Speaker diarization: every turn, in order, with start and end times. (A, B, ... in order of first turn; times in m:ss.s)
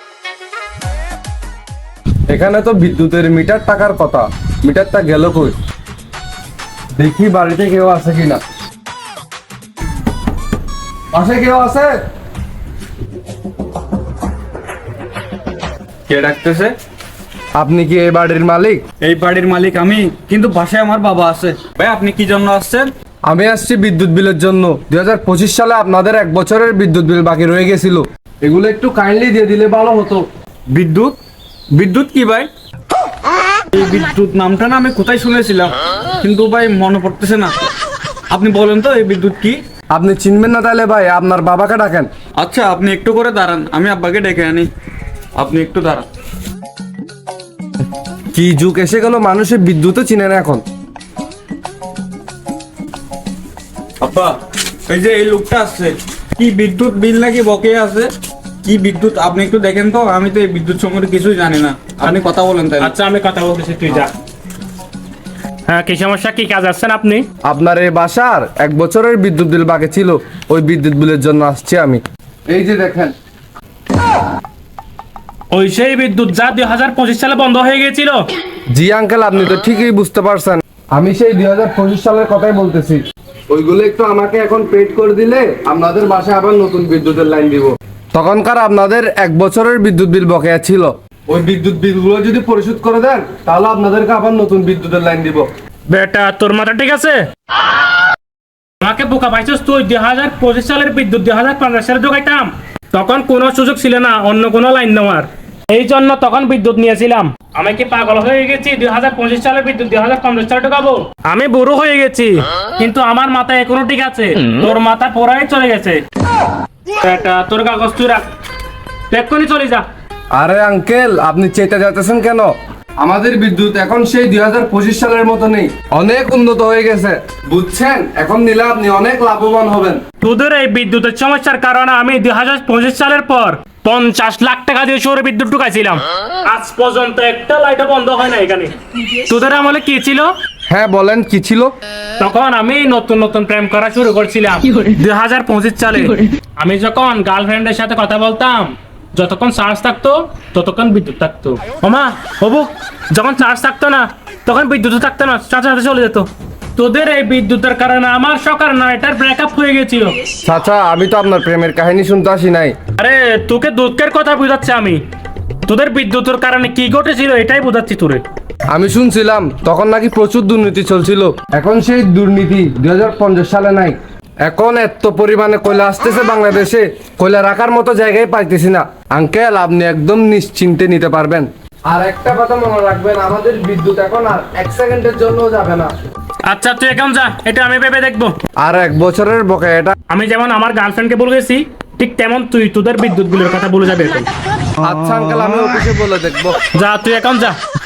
0:02.3-0:05.6 A
0:07.0-0:08.4 A
0:11.1-0:12.0 A
0:16.1-0:16.7 B
0:17.6-0:18.8 A
0:19.0-0:22.9 B
0:23.2-0:30.2 A
0:30.7-0:31.2 B
0:31.7-0:32.5 B
0:33.8-0:37.5 B
0:38.3-0:39.6 B
0:39.9-0:42.1 A
0:42.4-0:44.7 B
0:45.4-0:46.0 B
0:48.3-0:50.6 A
0:54.0-0:54.4 B
0:54.9-0:58.1 B
0:58.6-1:02.9 B
1:02.8-1:04.1 C
1:05.7-1:07.2 C
1:07.4-1:13.1 A
1:15.5-1:18.2 C
1:18.7-1:35.5 A
1:35.9-1:37.2 C
1:38.8-1:56.0 C
1:57.0-1:58.2 C
1:59.1-1:59.8 C
2:00.3-2:10.0 A
2:10.2-2:20.3 C
2:20.7-2:21.7 A
2:22.2-2:40.3 C
2:40.4-2:42.8 A
2:43.0-2:45.0 C
2:45.7-2:48.2 C
2:48.7-3:05.9 A
3:06.5-3:08.4 C
3:08.6-3:09.9 A
3:10.1-3:14.3 C
3:14.8-3:16.6 A
3:16.7-3:17.6 C